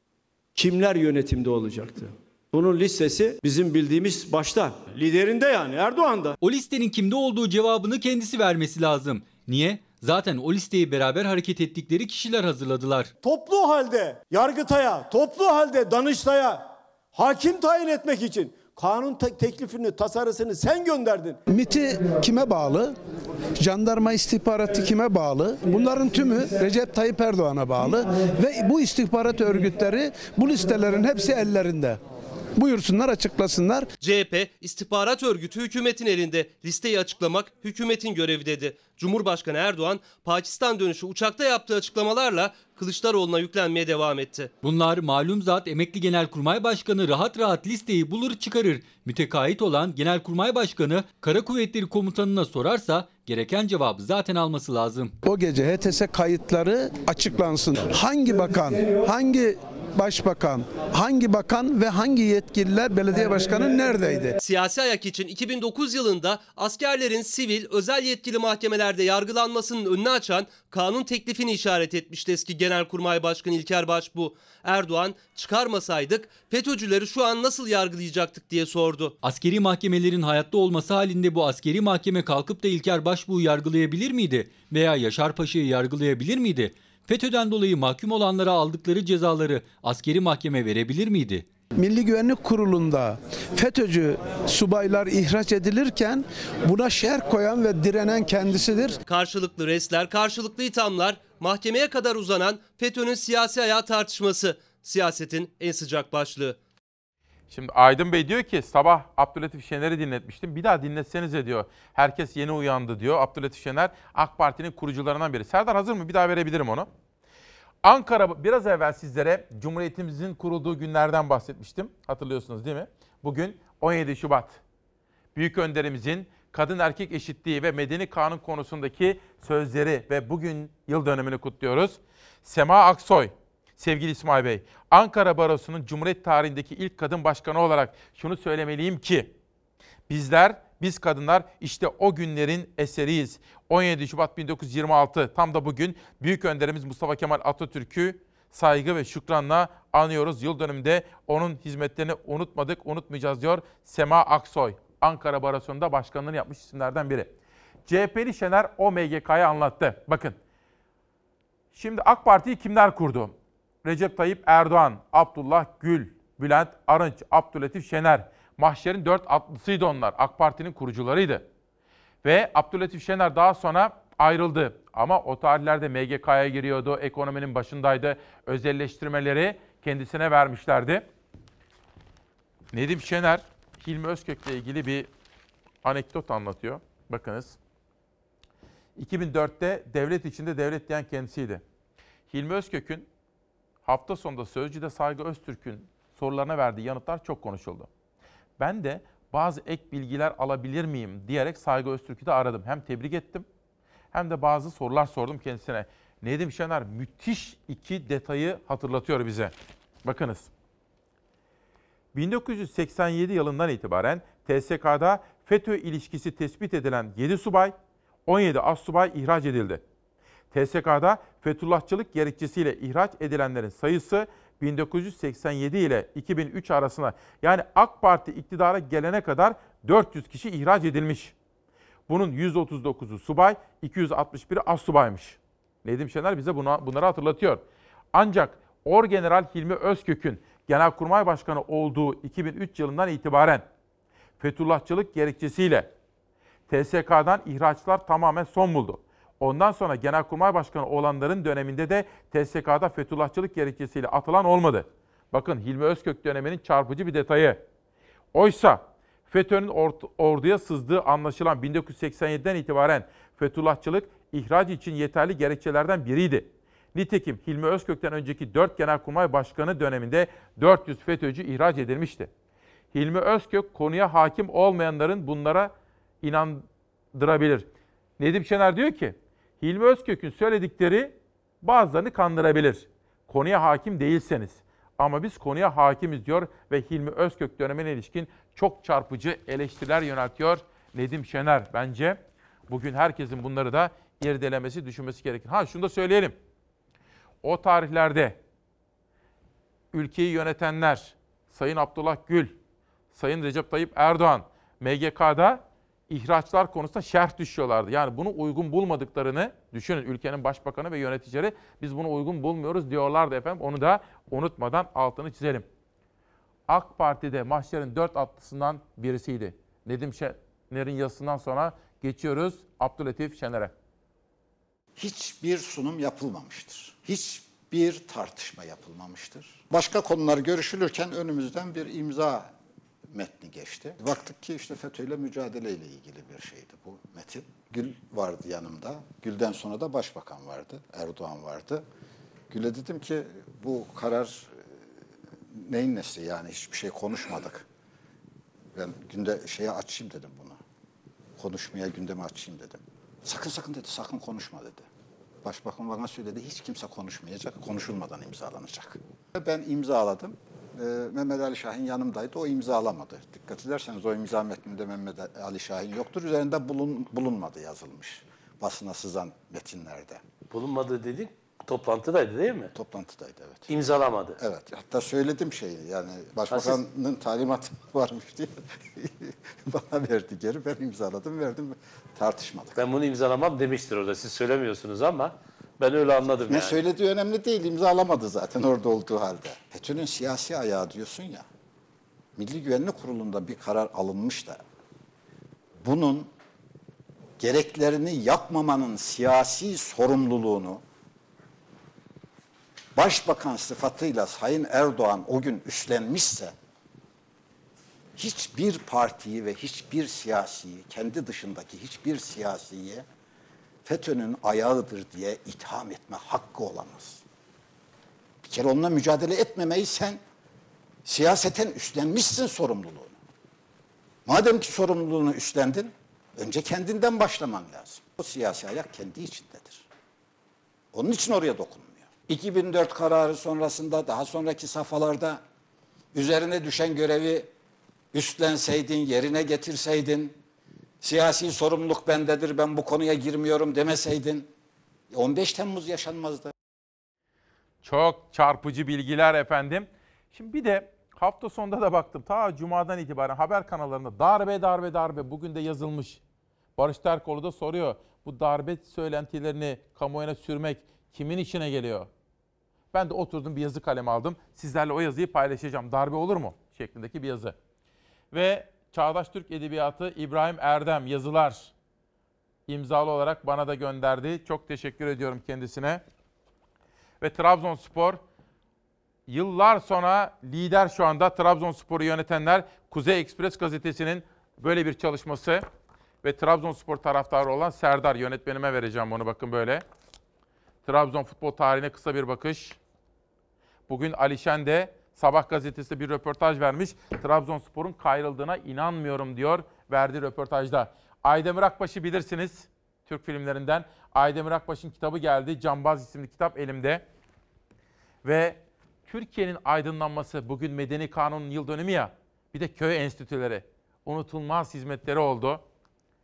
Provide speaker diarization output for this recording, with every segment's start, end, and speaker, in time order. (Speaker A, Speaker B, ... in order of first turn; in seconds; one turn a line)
Speaker A: 0.6-6.4
Speaker B: 6.4-13.1
Speaker A: 13.2-21.4
Speaker C: 21.5-22.9
Speaker C: 23.6-32.0
Speaker C: 32.6-33.9
Speaker D: 34.0-44.5
Speaker B: 44.6-55.1
Speaker C: 55.2-64.4
Speaker D: 64.4-79.2
Speaker B: 79.2-91.5
Speaker C: 91.8-99.0
Speaker D: 99.0-106.6
Speaker E: 107.5-116.9
Speaker E: 117.8-124.6
Speaker E: 125.3-139.3
Speaker E: 140.1-157.3
Speaker E: 157.9-160.4
Speaker E: 161.7-171.4
Speaker E: 172.2-181.0
Speaker E: 182.7-185.1
Speaker E: 185.8-187.6
Speaker E: 189.0-191.6
Speaker E: 192.3-193.1
Speaker E: 193.9-197.9
Speaker E: 198.6-203.4
Speaker E: 204.1-209.5
Speaker E: 210.0-210.5
Speaker E: 212.1-217.7
Speaker E: 218.3-219.8
Speaker E: 220.5-231.3
Speaker E: 232.1-237.6
Speaker E: 238.1-243.7
Speaker E: 244.4-245.9
Speaker E: 246.7-257.6
Speaker E: 258.3-272.3
Speaker E: 272.9-277.7
Speaker E: 278.2-296.4
Speaker E: 297.4-298.4
Speaker E: 299.9-302.5
Speaker E: 303.1-315.7
Speaker E: 316.7-323.7
Speaker F: 325.0-332.5
Speaker F: 333.1-341.8
Speaker F: 342.5-344.6
Speaker F: 345.5-347.6
Speaker F: 348.7-350.6
Speaker F: 351.4-354.9
Speaker F: 355.4-370.2
Speaker G: 370.5-372.7
Speaker F: 372.7-373.7
Speaker G: 373.7-374.4
Speaker F: 374.4-382.8
Speaker G: 376.5-376.8
Speaker G: 382.8-386.8
Speaker F: 386.5-391.4
Speaker F: 392.4-394.6
Speaker F: 395.8-396.3
Speaker F: 397.4-400.8
Speaker F: 402.9-406.6
Speaker F: 408.1-413.1
Speaker F: 413.8-417.2
Speaker F: 418.4-420.2
Speaker F: 421.1-423.2
Speaker F: 424.2-429.8
Speaker F: 430.9-435.4
Speaker F: 436.1-437.5
Speaker F: 438.1-440.4
Speaker F: 441.0-444.5
Speaker F: 445.1-446.5
Speaker E: 447.8-456.2
Speaker E: 456.8-462.1
Speaker E: 462.9-467.6
Speaker E: 468.3-471.7
Speaker E: 472.7-476.0
Speaker E: 477.2-478.2
Speaker E: 479.3-485.6
Speaker E: 486.2-489.8
Speaker E: 490.9-492.8
Speaker E: 493.9-507.0
Speaker E: 508.2-515.6